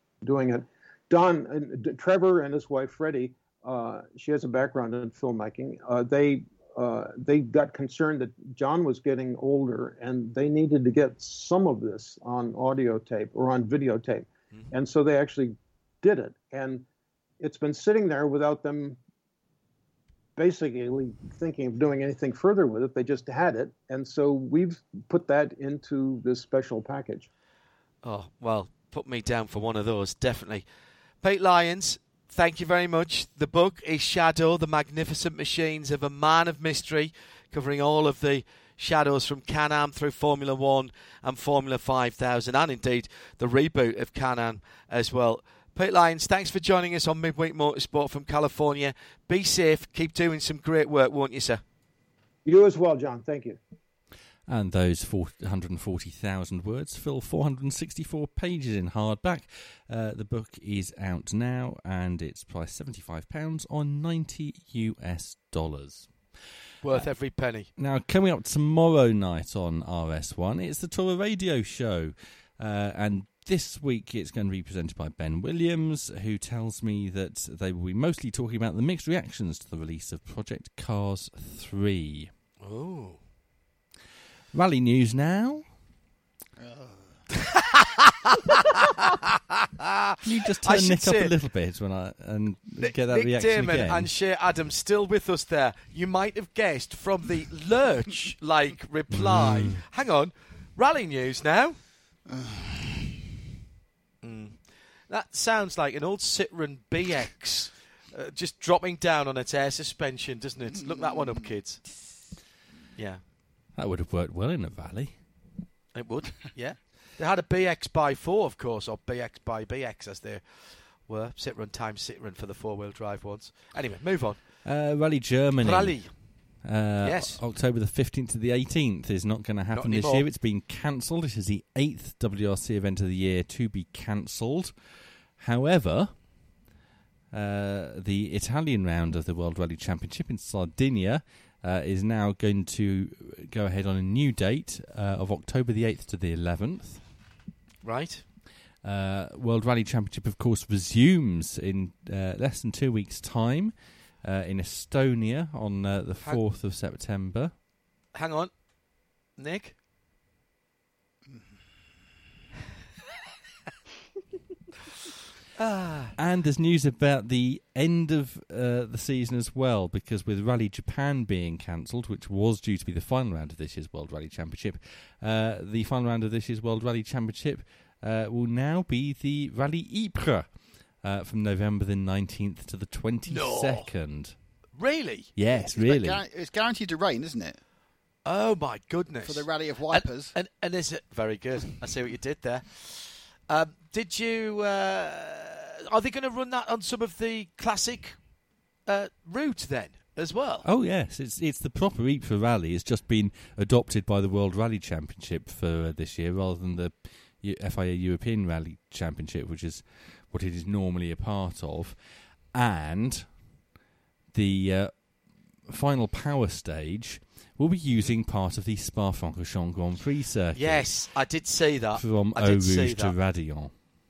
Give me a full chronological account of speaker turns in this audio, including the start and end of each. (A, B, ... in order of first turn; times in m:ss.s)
0:00.2-0:16.8 A
0:17.4-0:19.0 A
0:20.4-0:27.3 A
0:28.0-0:30.6 B
0:31.2-0:51.6 B
0:52.4-0:53.6 A
0:54.5-1:06.1 C
1:06.8-1:07.7 B
1:07.8-1:22.3 C
1:22.6-1:23.2 B
1:24.5-1:25.7 C
1:26.6-1:27.2 D
1:27.5-1:31.3 B
1:30.2-1:34.1 C
1:32.8-1:41.8 B
1:39.1-1:39.8 C
1:42.2-1:43.2 D
1:44.2-1:51.8 B
1:50.7-1:51.5 D
1:53.0-1:53.2 B
1:53.7-1:55.2 C
1:55.9-2:04.6 B
2:04.6-2:14.8 C
2:05.6-2:06.2 B
2:07.0-2:07.4 B
2:09.7-2:10.2 B
2:15.4-2:16.3 C
2:17.3-2:27.1 C
2:27.8-2:28.2 B
2:28.8-2:37.5 C
2:38.1-2:38.5 B
2:39.4-2:39.7 B
2:45.6-2:46.1 B
2:46.2-3:04.4 C
3:03.3-3:03.9 B
3:04.8-3:05.3 B
3:05.4-3:06.2 C
3:05.5-3:07.6 D
3:08.2-3:18.2 B
3:09.2-3:10.4 D
3:18.8-3:20.6 B
3:20.6-3:33.5 C
3:34.3-3:41.3 C
3:40.5-3:43.1 B
3:41.9-3:43.8 C